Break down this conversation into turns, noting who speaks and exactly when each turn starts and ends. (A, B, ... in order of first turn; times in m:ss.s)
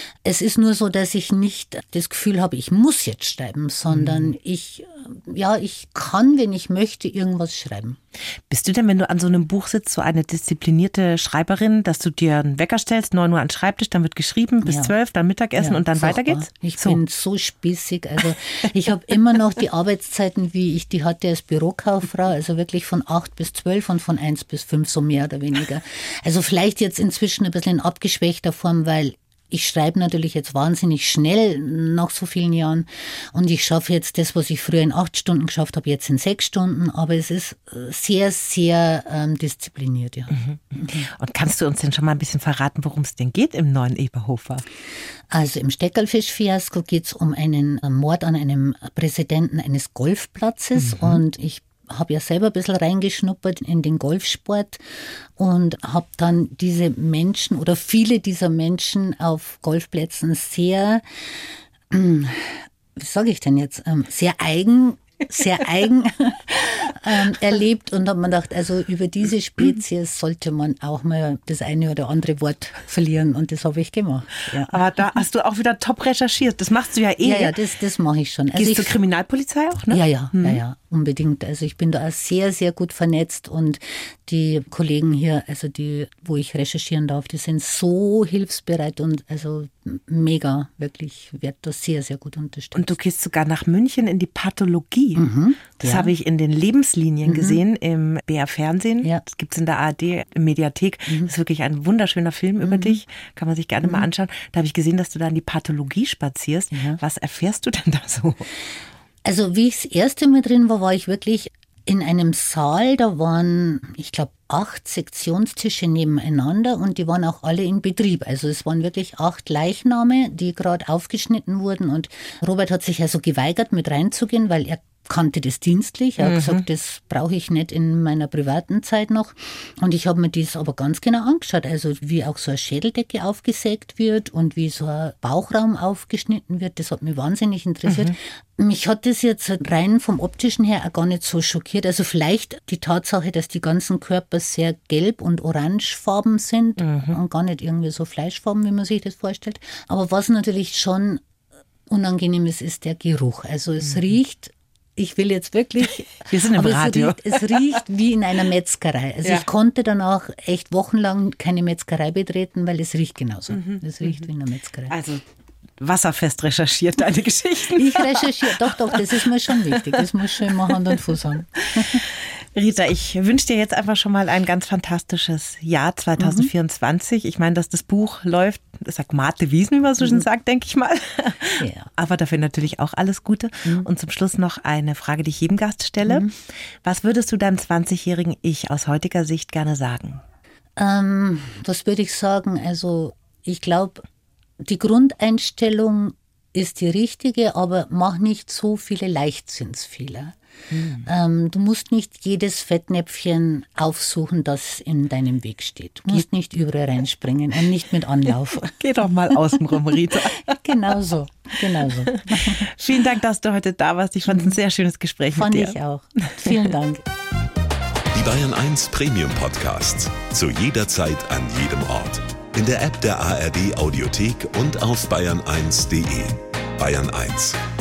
0:00.2-0:08.0 A
0:04.0-0:04.3 B
0:08.5-0:17.0 B
0:14.6-0:14.9 A
0:15.6-0:41.1 A
0:40.3-0:44.6 B
0:45.3-0:54.8 A
0:50.8-0:51.2 B
0:55.4-1:01.0 A
1:01.9-1:14.8 A
1:14.6-1:17.6 B
1:17.2-1:19.0 A
1:18.6-1:20.6 B
1:19.9-1:33.0 A
1:32.8-1:35.2 B
1:35.2-1:36.1 A
1:35.8-1:48.5 B
1:37.2-1:37.6 A
1:42.6-1:43.0 A
1:46.7-1:47.0 A
1:49.2-2:31.2 A
2:06.2-2:06.6 B
2:17.9-2:18.1 B
2:26.8-2:27.2 B
2:31.9-2:45.0 A
2:36.3-2:37.8 B
2:43.5-2:44.2 B
2:44.9-2:45.2 B
2:45.8-3:06.3 B
2:47.8-2:52.0 A
2:56.2-2:56.5 A
3:01.6-3:01.9 A
3:06.0-3:06.3 A
3:06.8-3:10.2 B
3:10.8-3:14.0 A
3:14.6-3:20.4 A
3:20.7-3:21.0 B
3:21.0-3:28.8 A
3:28.6-3:30.6 B
3:30.3-3:32.7 A
3:31.8-3:36.7 B
3:34.3-3:34.6 A
3:35.3-3:37.0 A
3:38.1-3:47.6 C